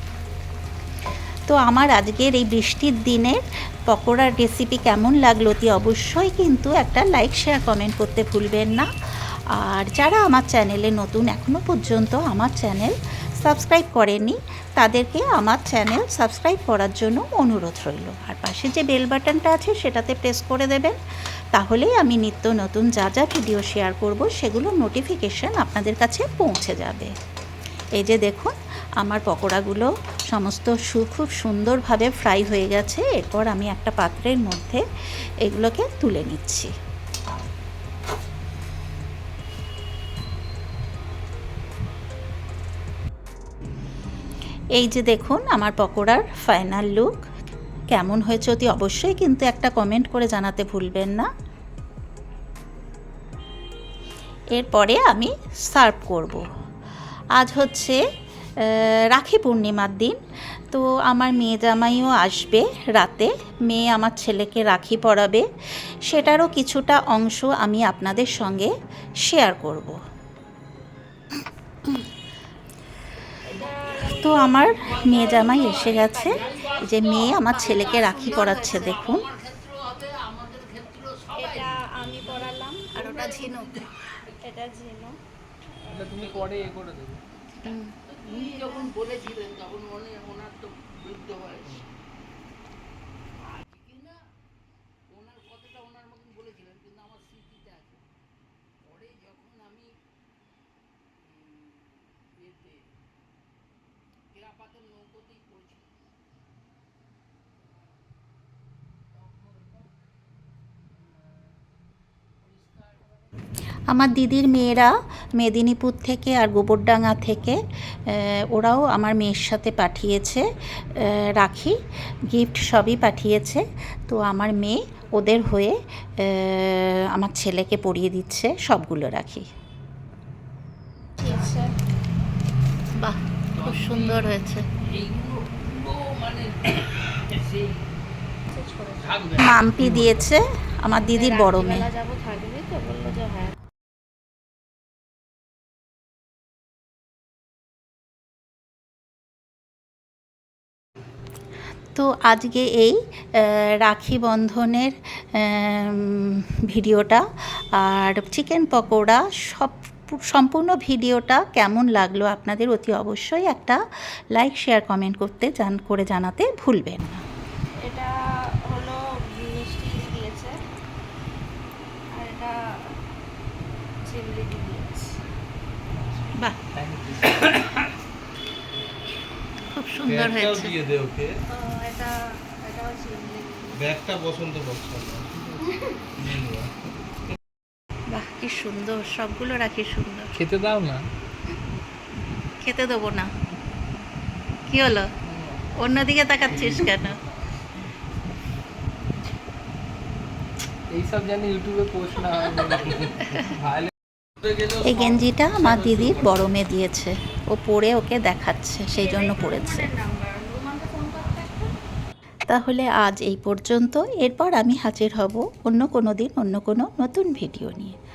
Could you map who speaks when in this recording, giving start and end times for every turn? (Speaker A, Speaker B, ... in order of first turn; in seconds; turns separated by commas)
Speaker A: 1.5-8.9, Speaker A: 9.5-21.0, Speaker A: 21.5-27.1, Speaker A: 27.9-34.8, Speaker A: 35.4-36.7, Speaker A: 44.8-47.2, Speaker A: 47.9-51.3, Speaker A: 54.5-56.5, Speaker A: 57.4-58.0, Speaker A: 58.6-60.2, Speaker A: 60.7-68.7, Speaker A: 69.2-70.0, Speaker B: 73.4-76.7, Speaker A: 74.0-79.3, Speaker C: 74.8-82.5, Speaker B: 77.4-79.0, Speaker B: 81.3-83.1, Speaker A: 82.9-83.9, Speaker C: 83.0-84.4, Speaker B: 84.4-85.2, Speaker D: 85.9-87.2, Speaker C: 86.1-86.7, Speaker A: 87.6-87.9, Speaker C: 88.0-91.8, Speaker B: 88.3-88.9, Speaker C: 93.5-94.2, Speaker C: 95.1-98.0, Speaker C: 98.8-99.9, Speaker C: 101.2-102.9, Speaker C: 104.3-105.9, Speaker C: 112.4-113.0, Speaker A: 113.9-121.8, Speaker A: 122.3-129.5, Speaker B: 131.2-131.7, Speaker A: 132.9-134.7, Speaker C: 133.6-137.8, Speaker B: 138.5-139.1, Speaker C: 139.0-139.6, Speaker A: 139.3-141.9, Speaker D: 139.8-140.2, Speaker B: 141.0-143.6, Speaker A: 151.9-157.2, Speaker A: 157.8-163.8, Speaker A: 164.3-167.2, Speaker B: 167.8-168.1, Speaker B: 168.7-170.6, Speaker B: 172.1-172.9, Speaker B: 174.0-175.2, Speaker D: 175.9-177.9, Speaker A: 179.7-180.8, Speaker E: 180.1-181.3, Speaker B: 181.5-183.8, Speaker E: 183.7-185.4, Speaker B: 185.6-186.1, Speaker E: 186.2-186.7, Speaker A: 188.1-190.3, Speaker D: 190.3-191.1, Speaker A: 192.6-193.3, Speaker A: 194.7-195.1, Speaker D: 195.3-195.6, Speaker A: 195.8-197.2, Speaker D: 200.9-203.9, Speaker E: 204.4-206.4, Speaker A: 204.7-209.9, Speaker B: 208.9-211.7, Speaker A: 212.5-217.9